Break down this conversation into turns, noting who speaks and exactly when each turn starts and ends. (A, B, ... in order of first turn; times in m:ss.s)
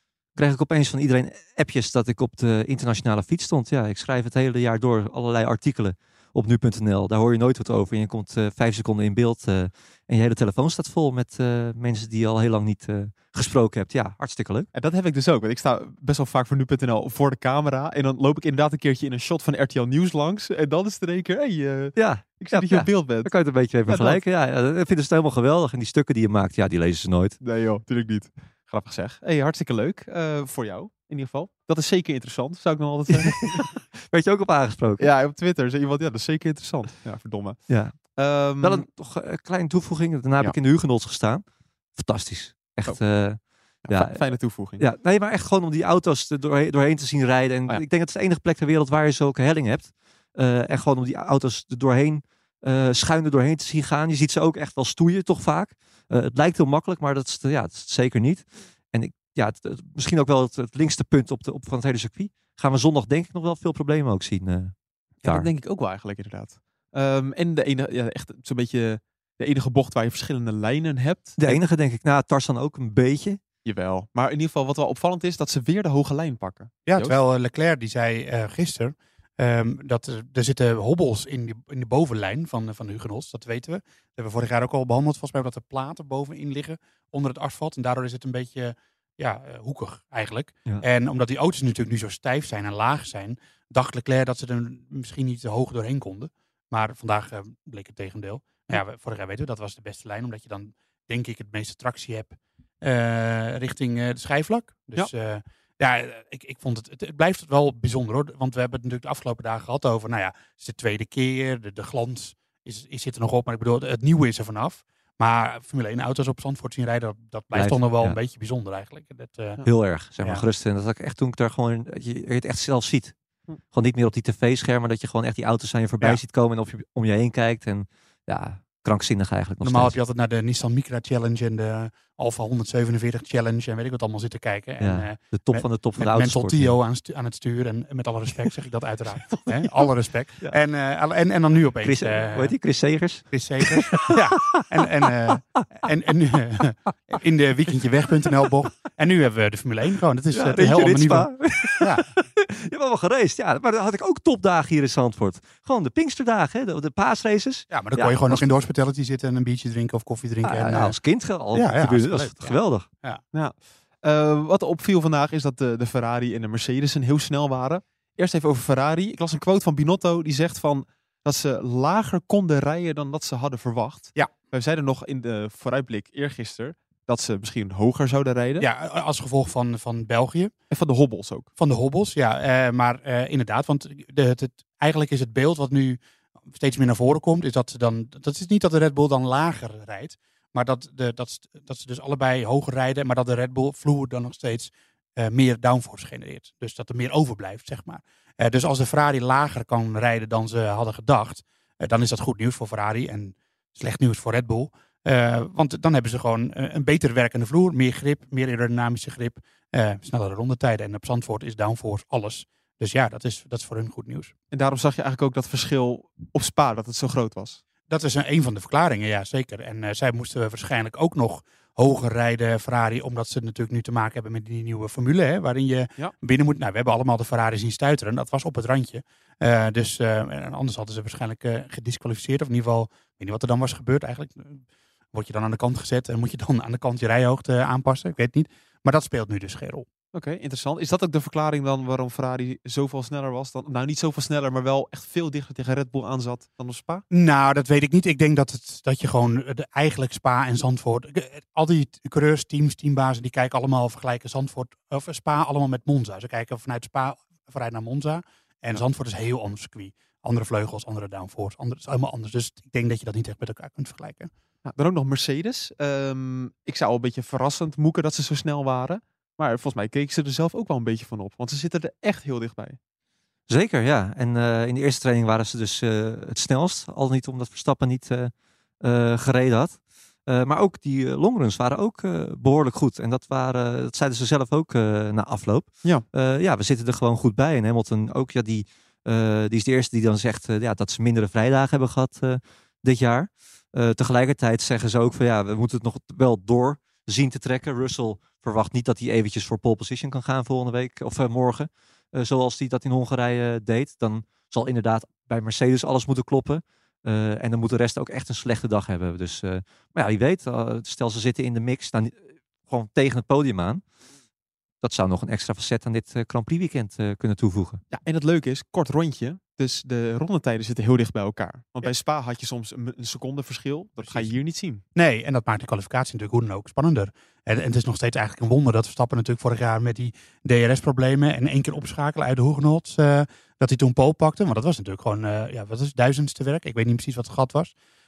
0:00.3-0:14.7 A
0:14.7-0:23.3 B
0:22.0-0:27.4 A
0:23.9-0:24.2 B
0:27.4-0:33.8 B
0:33.3-0:35.0 A
0:35.0-0:38.9 B
0:37.7-1:05.5 A
0:43.8-0:44.8 B
1:05.2-1:11.6 B
1:11.4-1:13.4 A
1:13.6-1:17.2 B
1:16.9-1:59.6 C
1:57.5-1:58.2 A
1:59.6-2:03.1 A
2:03.7-2:09.9 A
2:09.6-2:22.5 C
2:14.8-2:16.8 A
2:21.8-2:25.9 A
2:23.3-2:32.1 C
2:30.3-2:38.5 A
2:37.7-2:41.0 C
2:40.4-2:42.9 A
2:41.5-2:43.2 C
2:43.3-2:58.7 B
2:58.6-3:00.5 C
3:00.7-3:01.5 B
3:01.6-3:06.0 C
3:06.5-3:34.3 C
3:34.5-3:37.6 B
3:37.9-3:59.9 C
4:00.1-4:07.0 B
4:07.1-4:24.3 C
4:24.6-4:32.8 B
4:33.5-5:13.8 A
5:14.8-5:17.8 A
5:17.9-5:24.8 B
5:24.9-5:37.7 C